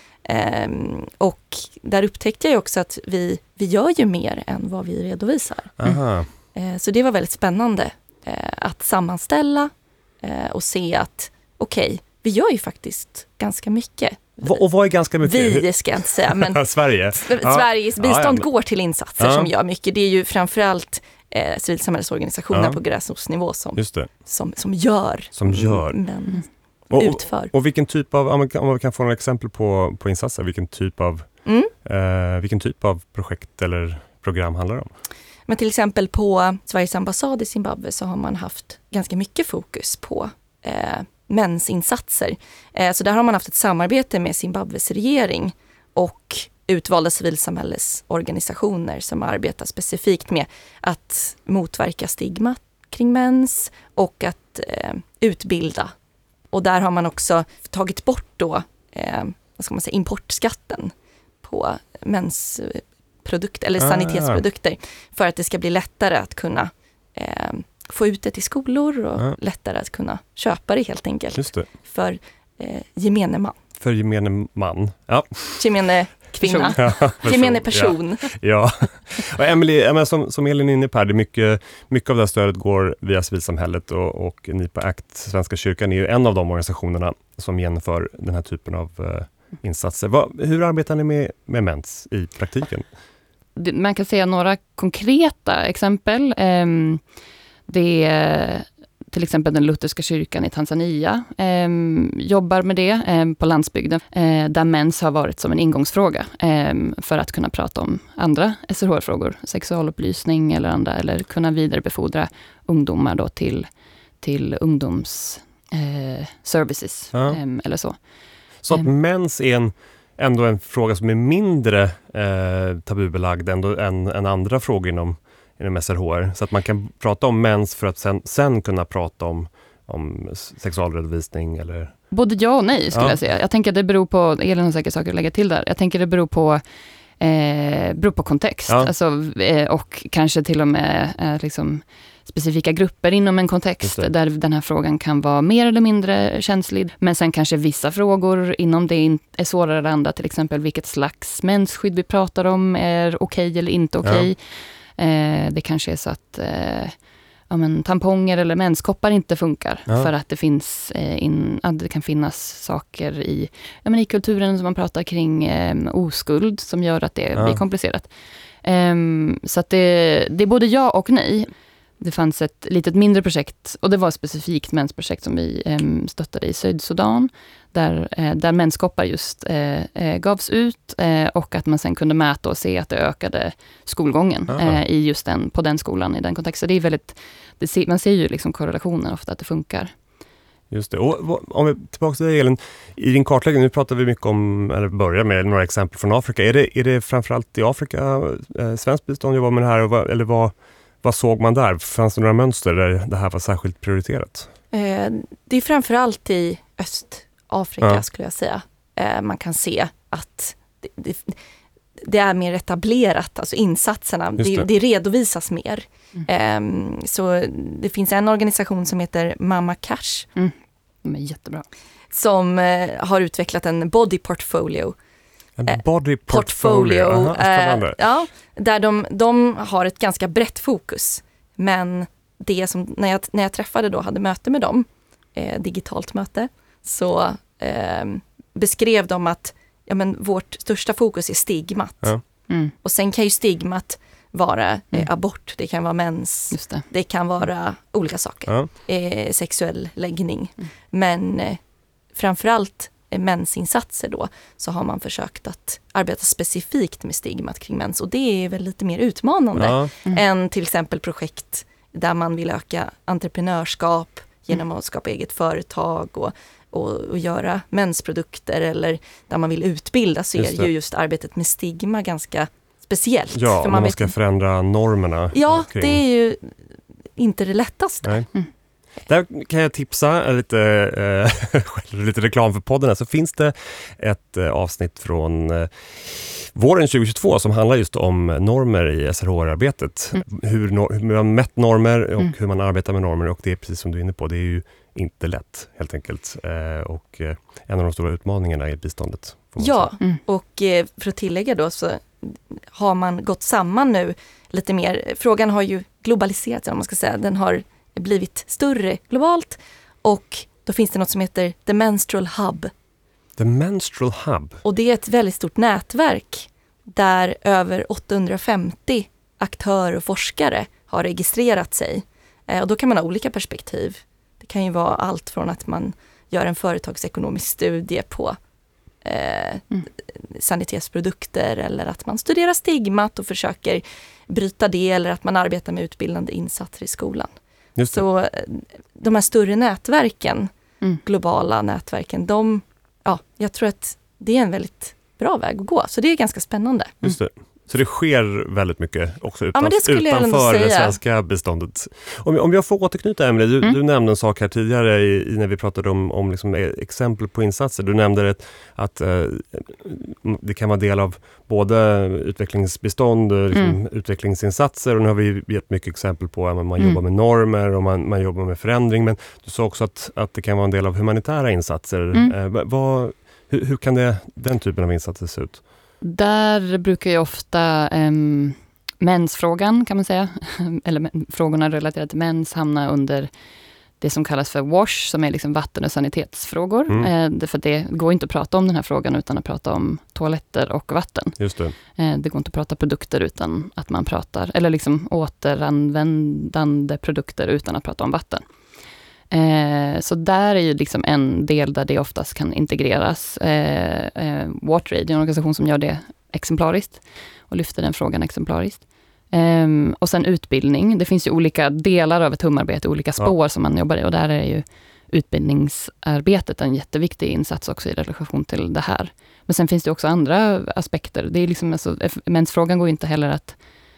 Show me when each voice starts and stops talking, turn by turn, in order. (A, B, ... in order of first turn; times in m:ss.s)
0:00.2-0:05.9 A
0:05.8-0:06.3 B
0:06.5-0:09.7 A
0:10.2-0:14.6 A
0:14.4-0:18.4 B
0:15.2-0:27.5 A
0:19.2-0:19.5 B
0:22.5-0:22.8 B
0:23.8-0:24.1 B
0:25.4-0:26.0 B
0:26.9-0:31.3 B
0:31.4-0:31.7 A
0:31.8-0:34.9 B
0:35.5-0:55.9 A
0:56.5-1:00.9 A
1:01.4-1:13.6 A
1:03.8-1:04.4 B
1:11.4-1:11.7 B
1:13.8-1:15.6 B
1:15.6-1:18.3 A
1:16.4-1:16.8 C
1:16.8-1:32.9 B
1:33.6-1:37.0 C
1:37.7-1:58.0 C
1:57.1-1:57.4 B
1:58.6-2:12.0 B
2:12.1-2:16.6 C
2:12.9-2:13.2 B
2:17.2-2:48.1 C
2:23.8-2:24.1 B
2:47.4-2:47.6 B
2:48.6-3:09.9 C
3:04.5-3:04.8 B
3:10.7-3:24.5 B
3:24.7-3:31.4 A
3:32.0-3:40.3 A
3:34.4-3:34.7 B
3:40.4-3:41.7 C
3:42.1-3:45.0 A
3:45.6-3:48.2 B
3:45.7-4:02.2 A
4:02.8-4:11.6 A
4:06.5-4:06.8 C
4:12.2-4:34.1 A
4:19.6-4:19.9 B
4:30.4-4:30.7 B
4:33.3-4:36.0 B
4:35.3-4:36.6 A
4:37.2-4:38.2 A
4:38.0-4:38.3 B
4:39.0-4:59.9 B
4:59.6-5:12.7 A
5:13.4-5:14.6 B
5:14.6-5:28.4 A
5:29.0-5:37.3 A
5:37.8-5:38.0 B
5:37.9-5:40.5 A
5:41.0-5:47.0 A
5:47.0-6:15.6 B
5:49.6-5:51.0 A
6:03.5-6:03.8 C
6:16.0-6:23.3 C
6:24.0-6:31.4 C
6:31.4-6:31.7 B
6:31.9-6:38.4 C
6:39.3-7:03.6 C